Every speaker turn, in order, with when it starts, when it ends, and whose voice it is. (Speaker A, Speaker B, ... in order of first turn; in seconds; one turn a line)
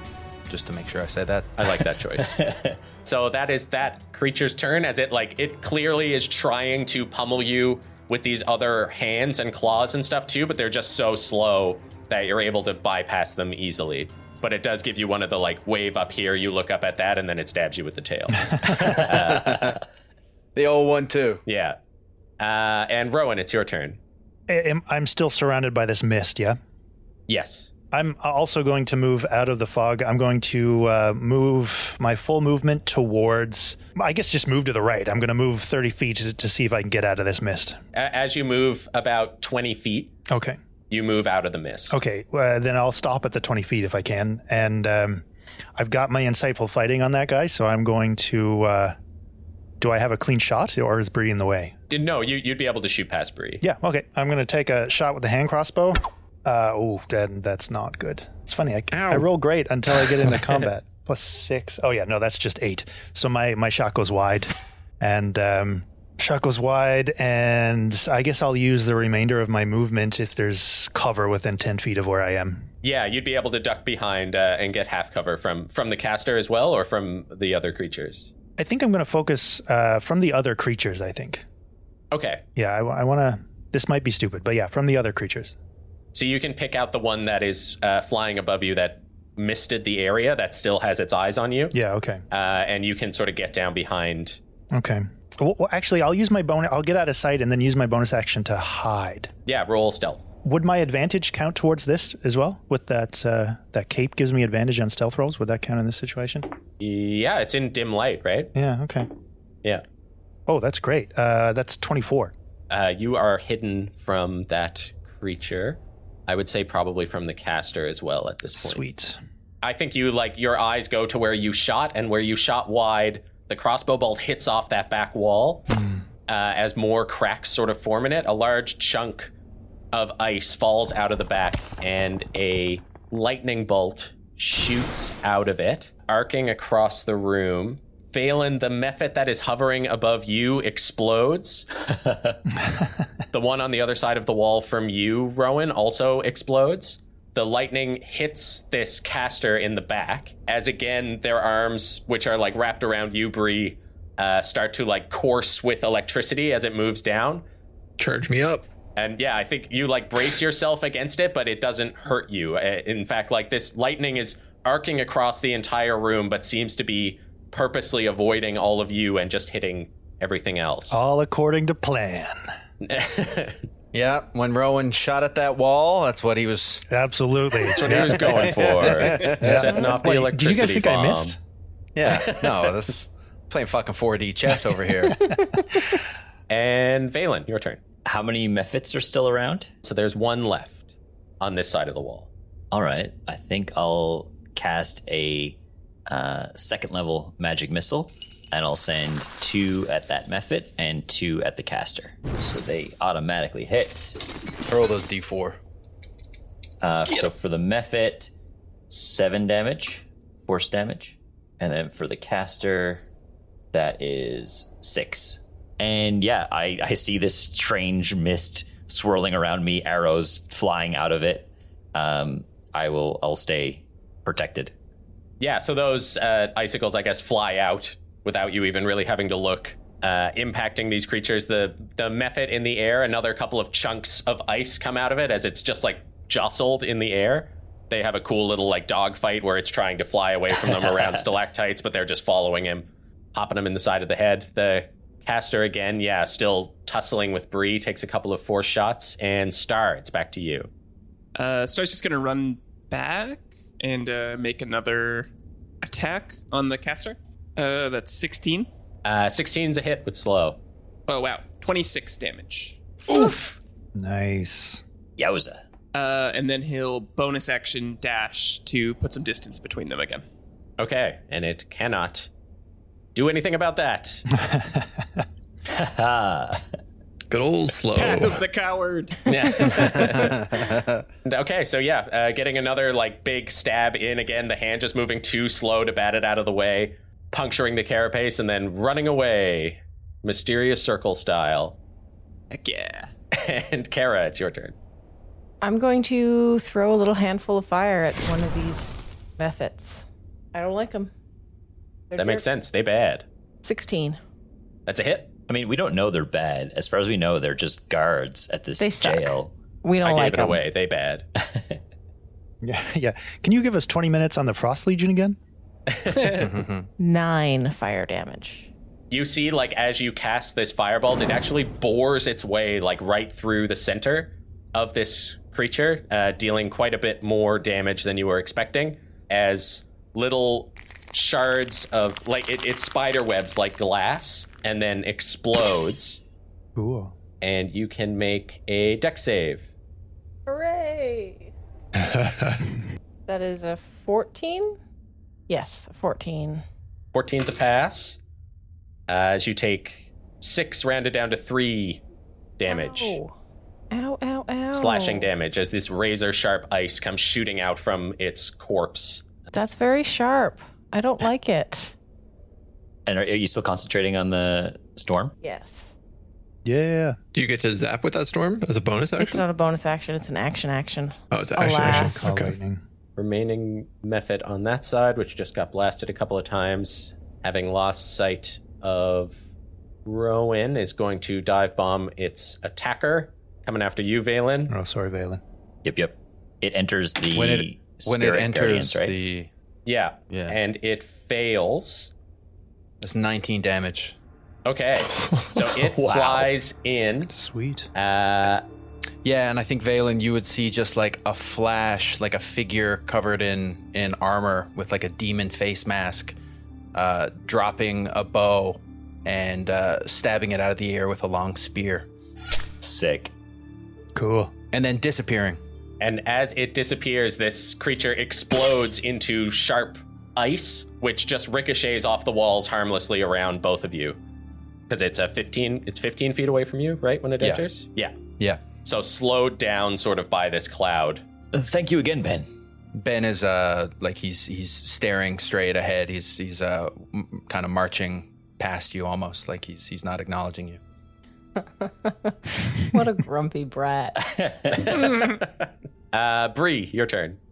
Speaker A: 0.5-1.6
Speaker B: 1.6-2.4
Speaker C: 2.2-2.8
Speaker B: 3.0-19.8
Speaker A: 18.8-19.8
Speaker A: 20.5-21.4
Speaker B: 21.5-21.8
Speaker B: 22.4-24.0
Speaker D: 24.5-26.6
Speaker B: 27.3-27.7
Speaker D: 27.9-37.8
Speaker B: 37.9-40.1
Speaker D: 40.3-40.6
Speaker B: 40.9-42.0
Speaker D: 41.9-45.2
Speaker D: 45.8-49.0
Speaker D: 49.8-51.7
Speaker B: 51.9-53.6
Speaker D: 53.6-72.7
Speaker B: 72.8-78.3
Speaker D: 78.6-81.4
Speaker B: 82.1-82.4
Speaker D: 82.5-85.5
Speaker B: 86.1-91.7
Speaker D: 91.7-92.2
Speaker B: 92.3-94.4
Speaker D: 94.7-99.3
Speaker B: 99.5-100.2
Speaker D: 100.4-106.5
Speaker B: 106.8-108.5
Speaker D: 108.5-109.1
Speaker D: 110.5-112.3
Speaker B: 112.7-118.8
Speaker D: 118.5-119.2
Speaker B: 119.6-125.6
Speaker D: 125.7-126.0
Speaker B: 126.3-129.3
Speaker B: 129.9-141.7
Speaker C: 141.9-142.2
Speaker B: 143.3-157.4
Speaker E: 158.0-158.6
Speaker B: 158.9-171.1
Speaker D: 170.9-172.4
Speaker B: 172.8-173.6
Speaker A: 173.9-176.8
Speaker D: 176.9-178.5
Speaker B: 177.7-181.3
Speaker A: 177.8-179.6
Speaker D: 179.2-181.4
Speaker A: 181.9-185.2
Speaker B: 182.1-182.7
Speaker B: 186.5-187.8
Speaker C: 188.0-189.7
Speaker B: 189.8-192.3
Speaker C: 192.7-204.2
Speaker A: 204.7-205.6
Speaker C: 206.8-208.3
Speaker C: 208.9-213.0
Speaker C: 213.7-224.7
Speaker B: 225.4-250.7
Speaker C: 240.5-241.2
Speaker F: 251.3-255.3
Speaker F: 255.8-258.7
Speaker B: 259.0-260.6
Speaker F: 261.1-263.4
Speaker D: 263.9-264.8
Speaker C: 265.2-265.6
Speaker F: 265.9-270.2
Speaker B: 270.8-272.3
Speaker B: 273.1-274.2
Speaker D: 274.4-274.8
Speaker C: 275.7-276.6
Speaker E: 277.3-278.4
Speaker F: 278.0-279.9
Speaker B: 279.3-280.4
Speaker A: 280.2-281.0
Speaker B: 281.2-291.8
Speaker F: 292.5-293.1
Speaker B: 293.3-294.7
Speaker G: 295.6-301.1
Speaker G: 302.1-302.6
Speaker B: 302.1-303.2
Speaker G: 303.6-304.2
Speaker B: 304.9-305.3
Speaker C: 305.5-309.5
Speaker G: 308.8-310.6
Speaker B: 310.0-311.2
Speaker C: 311.4-311.8
Speaker D: 312.6-315.4
Speaker B: 315.9-316.3
Speaker F: 316.1-316.5
Speaker A: 316.3-316.9
Speaker G: 317.0-318.7
Speaker B: 319.1-336.2
Speaker D: 336.8-337.1
Speaker B: 337.4-339.6
Speaker G: 340.4-341.5
Speaker G: 343.3-344.8
Speaker G: 345.5-346.6
Speaker B: 347.1-348.2
Speaker B: 349.1-352.0
Speaker B: 352.6-353.2
Speaker G: 352.7-353.3
Speaker G: 353.9-355.3
Speaker B: 354.7-359.3
Speaker G: 359.5-361.9
Speaker C: 363.1-365.3
Speaker G: 365.4-365.9
Speaker D: 366.6-367.2
Speaker E: 367.3-369.4
Speaker G: 369.2-372.3
Speaker E: 371.3-372.6
Speaker D: 371.8-372.8
Speaker B: 373.2-379.3
Speaker B: 380.1-384.7
Speaker D: 384.7-385.4
Speaker C: 385.8-389.1
Speaker A: 387.3-389.5
Speaker B: 389.9-392.1
Speaker A: 390.3-390.6
Speaker A: 393.0-394.1
Speaker B: 394.6-397.3
Speaker C: 396.0-396.5
Speaker D: 397.3-397.9
Speaker B: 397.9-398.6
Speaker A: 399.2-406.4
Speaker A: 406.9-412.1
Speaker C: 412.8-413.3
Speaker D: 414.1-414.5
Speaker A: 414.7-415.6
Speaker B: 416.0-424.2
Speaker B: 424.9-428.2
Speaker A: 428.4-428.6
Speaker B: 428.8-431.2
Speaker C: 431.5-432.5
Speaker A: 432.9-440.8
Speaker G: 441.6-444.2
Speaker C: 444.2-444.8
Speaker B: 444.7-447.4